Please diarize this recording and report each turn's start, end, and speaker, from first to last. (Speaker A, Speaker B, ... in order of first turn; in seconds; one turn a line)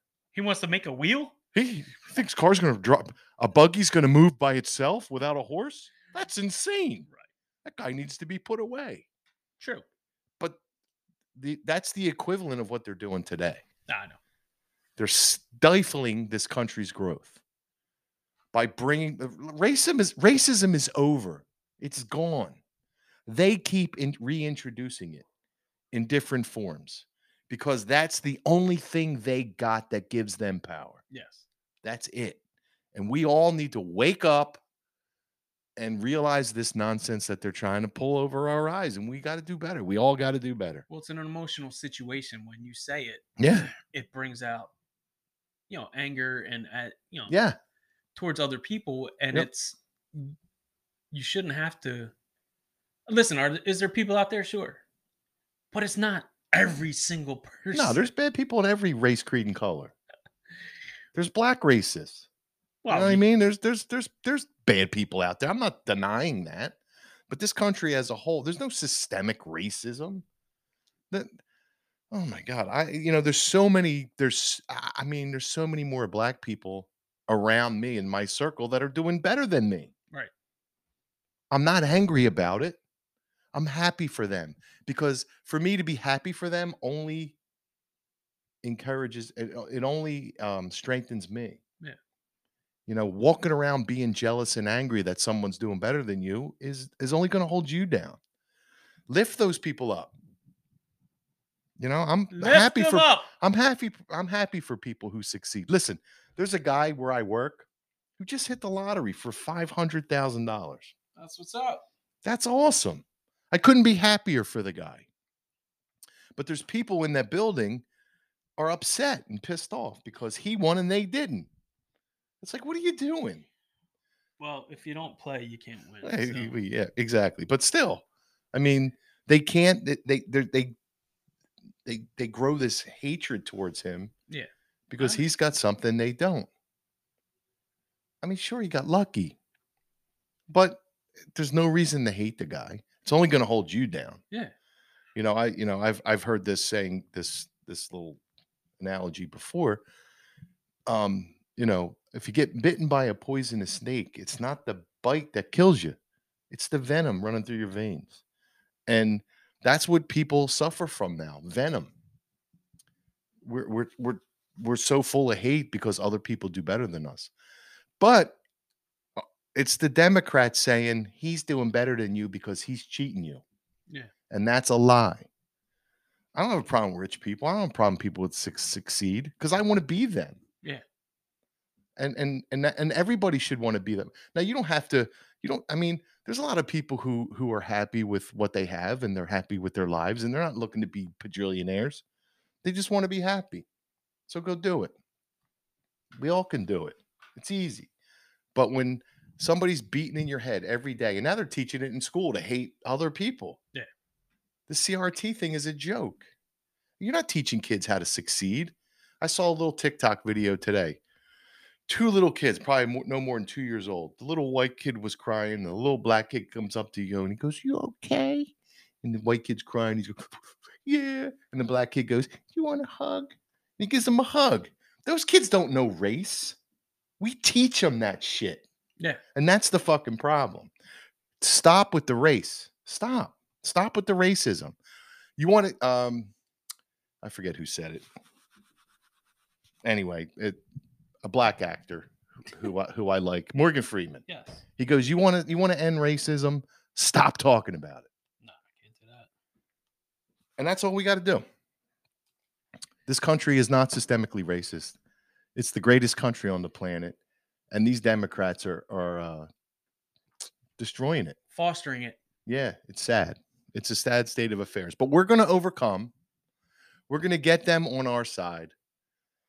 Speaker A: 0.3-1.3
Speaker B: 1.5-7.1
Speaker B: 7.6-9.1
Speaker A: 9.6-9.8
Speaker B: 11.3-13.6
Speaker A: 13.9-14.2
Speaker B: 15.0-17.4
Speaker B: 18.5-22.6
Speaker B: 23.3-25.2
Speaker B: 25.9-31.0
Speaker A: 31.1-31.4
Speaker B: 31.8-32.4
Speaker B: 32.9-34.6
Speaker B: 35.8-40.8
Speaker A: 40.9-44.7
Speaker B: 43.4-43.7
Speaker A: 45.7-47.4
Speaker B: 47.3-47.5
Speaker A: 48.1-50.3
Speaker A: 51.1-52.1
Speaker A: 53.1-54.8
Speaker A: 55.7-58.1
Speaker B: 57.7-59.9
Speaker B: 61.1-62.3
Speaker A: 62.8-63.2
Speaker B: 62.9-66.8
Speaker B: 67.3-70.2
Speaker B: 71.1-71.4
Speaker B: 72.1-79.9
Speaker B: 81.5-82.8
Speaker B: 83.5-87.4
Speaker B: 88.6-91.6
Speaker B: 92.9-98.2
Speaker B: 99.1-100.1
Speaker B: 101.8-107.7
Speaker A: 102.3-103.3
Speaker B: 108.2-110.9
Speaker A: 111.2-111.8
Speaker B: 112.2-115.0
Speaker B: 116.3-117.8
Speaker B: 118.6-121.5
Speaker B: 122.4-123.5
Speaker A: 124.4-126.6
Speaker B: 126.0-130.7
Speaker B: 131.8-134.1
Speaker A: 134.3-135.2
Speaker B: 134.9-136.5
Speaker B: 138.2-139.3
Speaker B: 140.5-140.8
Speaker B: 141.3-144.2
Speaker B: 145.2-148.2
Speaker B: 148.8-149.8
Speaker B: 150.8-156.0
Speaker B: 156.5-158.2
Speaker B: 158.9-161.9
Speaker B: 163.4-167.3
Speaker B: 168.0-168.4
Speaker B: 169.2-173.4
Speaker B: 174.3-175.3
Speaker B: 176.3-180.4
Speaker B: 182.0-192.0
Speaker B: 192.6-193.7
Speaker B: 194.3-194.9
Speaker B: 196.2-197.9
Speaker B: 198.5-203.6
Speaker B: 204.7-206.2
Speaker B: 207.0-211.0
Speaker B: 211.9-218.5
Speaker B: 219.0-226.6
Speaker B: 227.2-228.6
Speaker B: 229.3-230.7
Speaker B: 231.4-234.8
Speaker B: 235.4-236.3
Speaker B: 237.2-238.1
Speaker B: 239.8-240.6
Speaker B: 241.2-244.2
Speaker A: 244.3-244.6
Speaker B: 244.8-248.1
Speaker A: 248.4-249.3
Speaker B: 250.6-251.4
Speaker B: 253.1-255.0
Speaker B: 255.6-257.2
Speaker B: 257.7-259.5
Speaker B: 260.8-261.4
Speaker A: 261.5-262.2
Speaker B: 262.4-266.1
Speaker B: 267.1-268.7